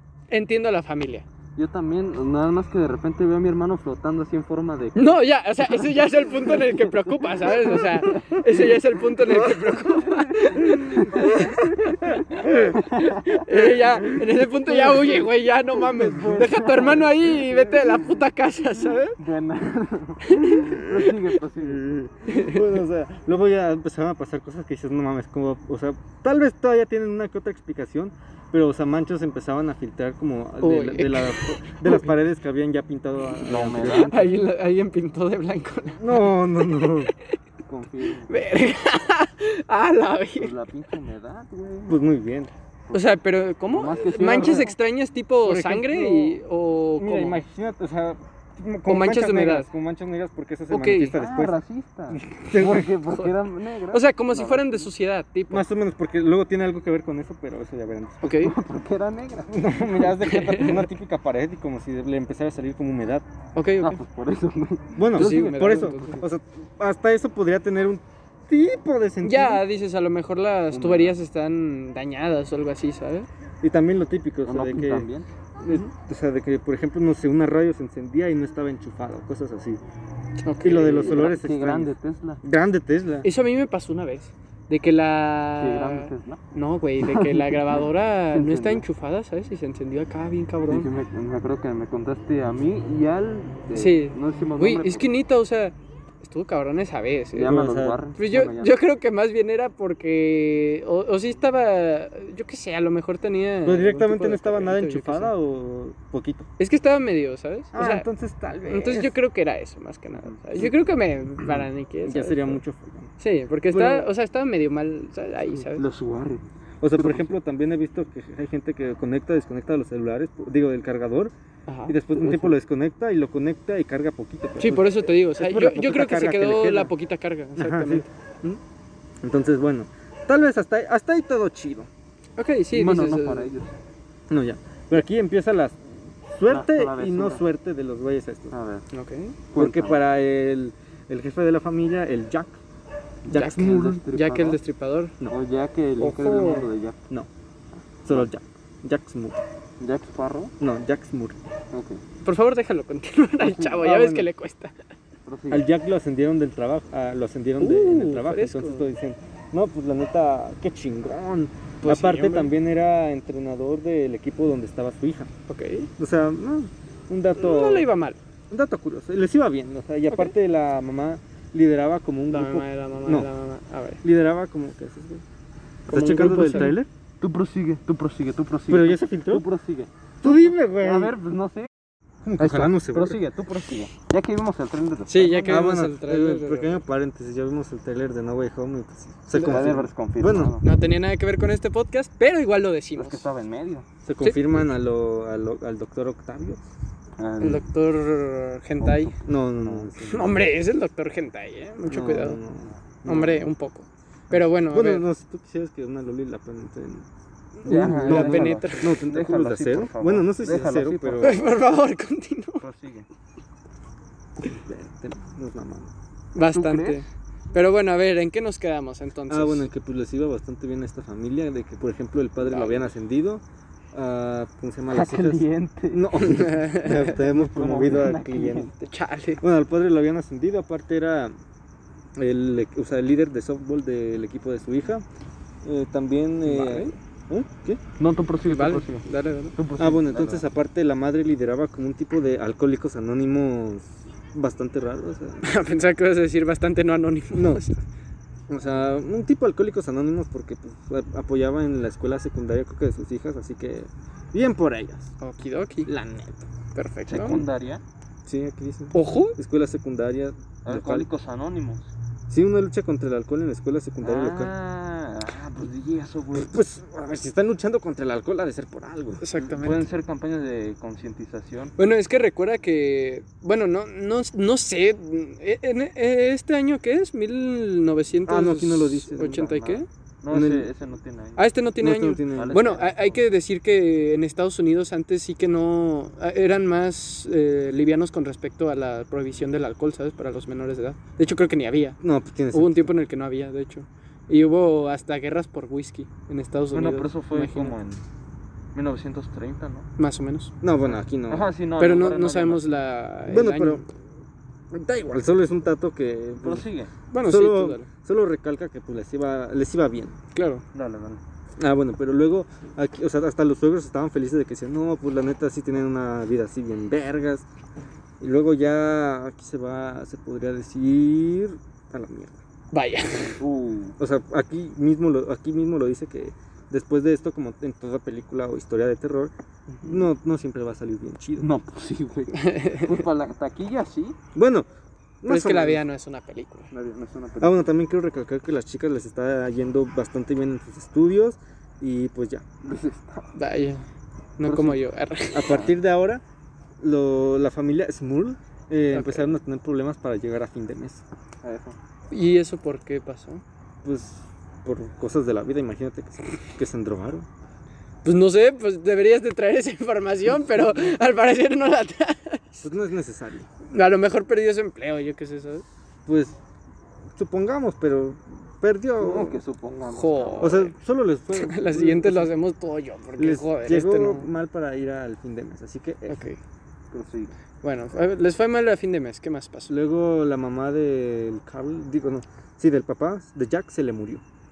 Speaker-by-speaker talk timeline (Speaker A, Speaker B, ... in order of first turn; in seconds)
Speaker A: 0.3-1.2, 5.0-19.2, 20.2-20.8, 22.3-22.6, 30.6-32.0, 33.8-36.9, 38.2-40.5, 42.9-47.4, 48.9-49.7, 50.7-51.2, 53.1-53.3, 53.9-55.6, 58.2-58.5, 60.2-60.8, 63.5-64.0, 65.1-66.2, 69.2-73.3, 75.7-75.9, 80.4-81.2, 83.2-90.9, 93.7-97.6, 98.1-105.3, 106.6-108.1, 108.7-112.6, 113.2-115.8, 121.7-122.0, 124.6-128.1, 132.4-133.5, 138.9-139.4, 143.3-145.1, 146.0-146.7, 152.2-154.7, 157.6-158.9, 161.8-162.5, 165.5-165.9, 167.3-168.2, 172.3-174.0, 175.9-176.8, 185.1-186.8, 190.6-193.2, 197.4-199.1, 200.0-202.4, 203.0-205.0, 207.6-208.9, 211.2-212.6, 216.3-219.7, 226.3-227.2, 228.8-229.4, 236.4-236.9, 238.4-239.6, 245.4-247.8, 255.2-255.9, 256.7-257.4, 258.9-259.4, 269.2-269.9, 271.8-279.9, 281.4-292.0, 292.5-297.7, 300.0-300.5, 301.8-303.8, 307.1-307.9, 310.3-310.6, 322.7-323.4, 332.3-333.0, 335.2-336.7, 343.3-343.9, 344.4-345.6, 348.9-349.3, 352.1-353.4, 358.0-362.6, 363.7-365.6, 369.9-370.7, 371.3-374.3, 376.1-376.4, 377.6-379.7
Speaker B: 1.6-9.0, 9.9-18.1, 19.1-21.9, 33.4-34.2, 37.6-38.4, 40.4-42.0, 42.9-43.1, 43.7-44.8, 51.1-54.9, 58.4-59.7, 63.8-66.1, 70.7-71.1, 74.5-75.3, 80.7-82.4, 85.6-86.4, 87.0-88.8, 90.7-95.1, 97.3-98.8, 115.7-117.3, 122.1-122.6, 132.7-133.7, 136.5-137.4, 138.5-138.8, 139.5-140.0, 143.3-144.6, 145.2-147.0, 149.8-150.5, 151.7-152.0, 153.4-153.8, 155.2-155.7, 177.2-181.7, 182.4-185.6, 189.3-190.7, 192.9-193.8, 197.2-197.7, 198.8-199.9, 207.6-211.4, 212.6-213.1, 216.4-217.0, 224.9-226.3, 226.9-228.7, 238.0-239.0, 239.6-240.5, 257.1-257.8, 260.6-261.9, 264.0-266.6, 269.4-271.8, 280.2-281.4, 282.3-283.2, 296.7-298.0, 298.7-299.9, 300.9-302.7, 306.4-306.9, 310.7-311.2, 323.2-324.0, 331.4-334.2, 336.7-337.7, 342.6-343.3, 345.4-345.7, 351.4-351.8, 369.0-370.6, 376.9-377.3
Speaker C: 9.3-9.7, 10.6-11.0, 12.4-12.7, 21.6-34.4, 36.0-37.1, 41.9-42.5, 45.4-46.4, 47.0-51.6, 52.1-52.9, 55.5-58.4, 59.5-63.2, 65.0-69.6, 73.6-75.1, 75.6-79.8, 80.6-83.3, 97.5-98.0, 103.6-106.5, 107.7-109.1, 111.5-113.1, 113.7-114.1, 116.8-121.3, 121.9-126.9, 127.6-128.6, 129.2-131.9, 134.3-138.5, 139.5-142.6, 143.3-144.0, 148.0-149.4, 150.6-151.4, 153.7-154.3, 155.5-165.3, 166.0-167.9, 168.5-173.3, 174.0-175.2, 175.9-176.9, 178.7-179.4, 180.2-181.2, 182.2-183.2, 185.4-190.5, 194.0-196.6, 199.2-200.4, 201.9-203.5, 204.3-207.1, 207.6-211.5, 214.4-215.9, 219.3-223.4, 223.9-228.7, 229.4-231.3, 232.2-235.0, 235.6-237.8, 239.8-245.5, 247.3-247.6, 248.5-255.1, 255.8-256.4, 258.2-261.1, 262.3-264.5, 266.3-269.2, 278.2-279.8, 280.3-280.7, 281.8-282.6, 292.0-292.9, 300.6-301.5, 303.2-303.9, 304.7-306.7, 307.2-310.2, 311.6-317.4, 318.2-322.4, 324.0-329.3, 329.8-331.5, 334.3-334.7, 335.2-335.8, 337.4-342.4, 345.3-346.2, 346.8-351.0, 353.8-357.3, 362.6-363.5, 366.1-366.4, 367.1-369.4, 370.4-372.3, 373.2-376.3, 379.7-384.2